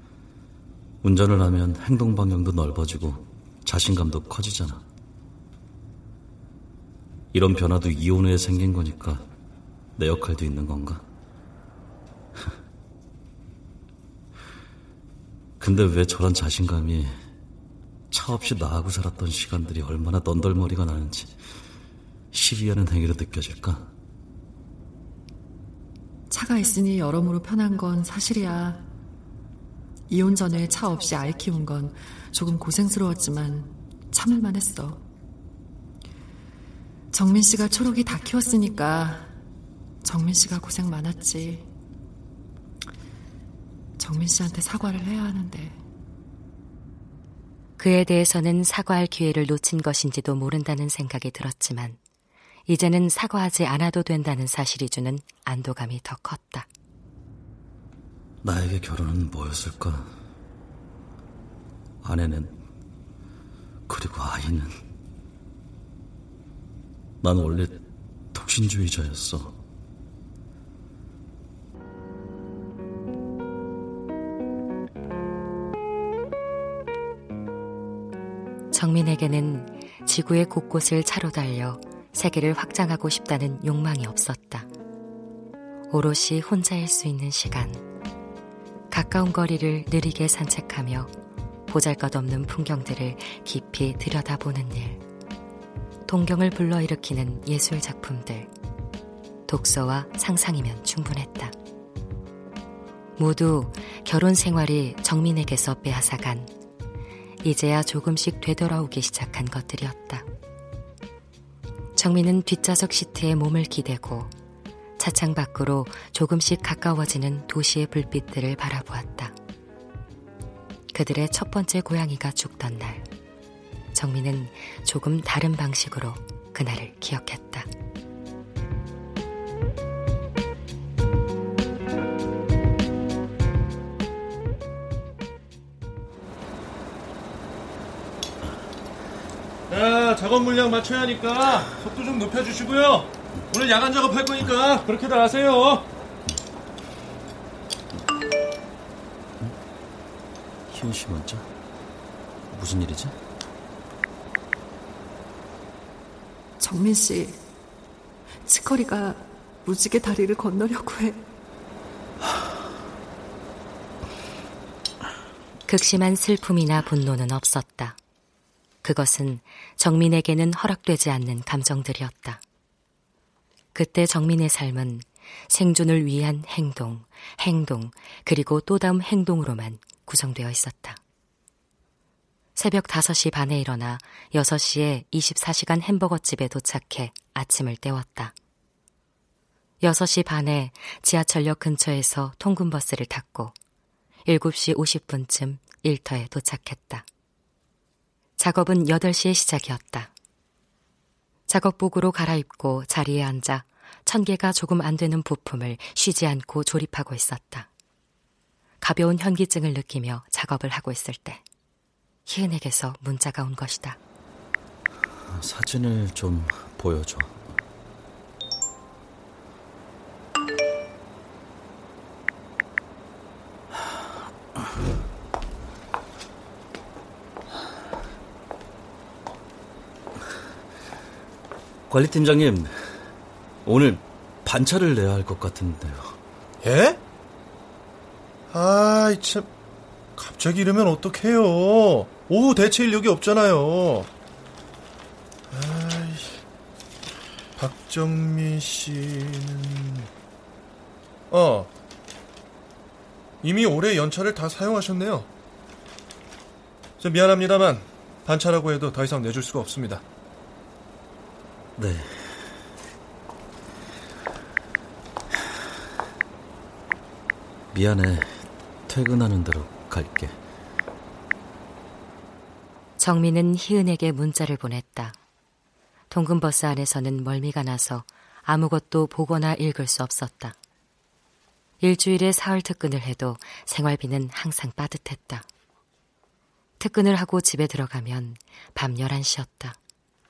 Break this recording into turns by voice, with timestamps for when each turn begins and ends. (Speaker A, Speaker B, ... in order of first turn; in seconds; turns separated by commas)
Speaker A: 1.0-4.8, Speaker A: 7.3-9.3, Speaker A: 10.0-11.0, Speaker A: 15.6-17.2, Speaker A: 18.1-21.4, Speaker A: 22.3-23.9, Speaker B: 26.3-28.9, Speaker B: 30.1-35.0, Speaker B: 37.1-39.3, Speaker B: 40.0-41.7, Speaker B: 44.0-45.8, Speaker C: 47.8-52.0, Speaker C: 52.7-56.7, Speaker A: 58.4-60.1, Speaker A: 62.0-62.6, Speaker A: 63.9-64.8, Speaker A: 67.2-67.8, Speaker A: 68.3-69.5, Speaker C: 78.7-84.7, Speaker C: 85.9-87.8, Speaker C: 88.9-91.1, Speaker C: 91.7-95.0, Speaker C: 96.1-98.5, Speaker C: 99.5-101.5, Speaker C: 103.2-106.5, Speaker C: 107.4-110.3, Speaker C: 112.0-114.3, Speaker C: 115.0-119.3, Speaker C: 120.9-123.1, Speaker C: 123.9-127.7, Speaker D: 139.7-145.9, Speaker A: 150.7-151.5, Speaker A: 152.5-153.2, Speaker B: 156.6-157.4, Speaker B: 158.5-161.2, Speaker C: 165.7-168.0, Speaker C: 168.8-172.4, Speaker C: 173.8-181.0, Speaker C: 182.6-188.3, Speaker C: 189.8-193.5, Speaker C: 194.3-197.1, Speaker C: 198.4-200.1, Speaker C: 201.5-207.7, Speaker C: 208.8-211.4, Speaker C: 212.3-214.0, Speaker A: 215.3-217.4, Speaker A: 231.9-233.0, Speaker A: 233.7-236.2, Speaker E: 236.6-237.0, Speaker E: 238.5-239.5, Speaker E: 240.2-244.1, Speaker E: 245.5-246.4, Speaker E: 247.6-250.1, Speaker E: 251.3-251.7, Speaker E: 253.4-255.3, Speaker E: 257.0-260.0, Speaker A: 261.8-262.6, Speaker A: 267.7-270.4, Speaker C: 273.0-275.2, Speaker C: 276.1-280.6, Speaker C: 281.8-285.4, Speaker C: 286.8-289.8